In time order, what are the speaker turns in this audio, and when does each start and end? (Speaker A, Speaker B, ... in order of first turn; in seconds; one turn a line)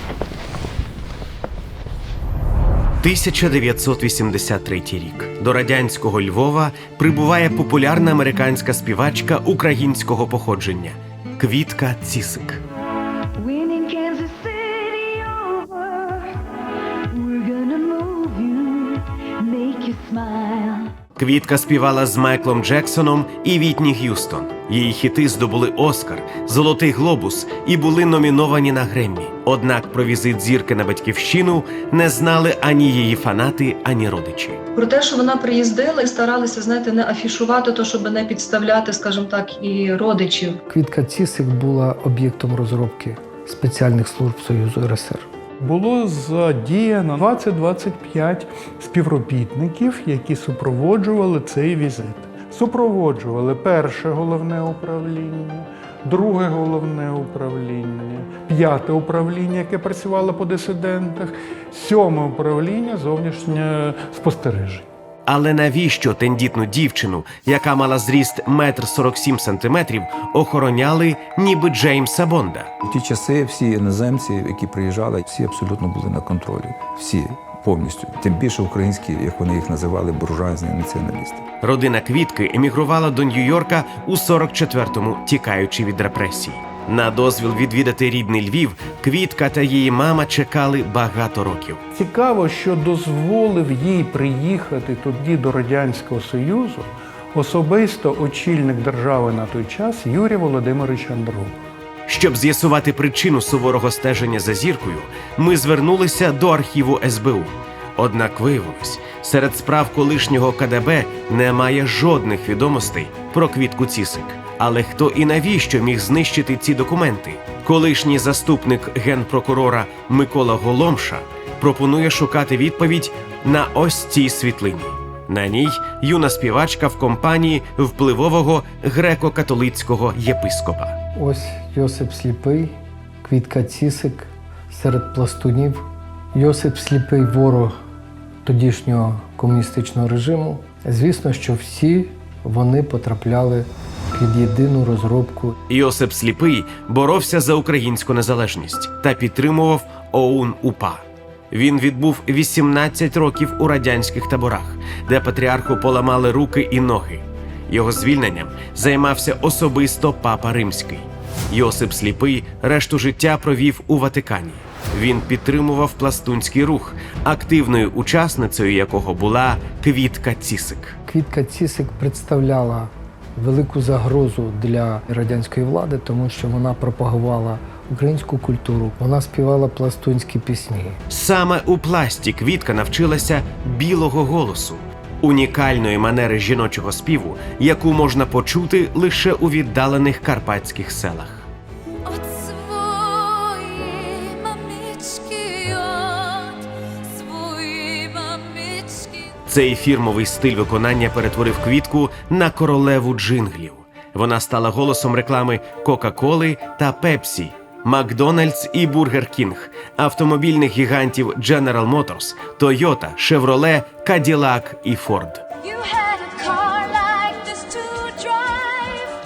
Speaker A: 3.0-12.6
Speaker B: 13.4-16.4
Speaker B: 17.1-20.9
Speaker A: 21.2-34.6
Speaker C: 34.8-40.6
Speaker D: 40.7-45.2
Speaker E: 45.6-64.9
Speaker A: 65.2-72.7
Speaker F: 72.8-81.4
Speaker A: 81.6-91.8
Speaker E: 91.9-101.6
Speaker A: 102.1-130.9
Speaker D: 131.2-137.7
Speaker D: 138.4-145.6
Speaker A: 145.7-171.0
Speaker D: 171.1-181.0
Speaker A: 181.1-191.5
Speaker B: 192.0-199.4
Speaker A: 199.4-215.4
Speaker B: 215.6-219.1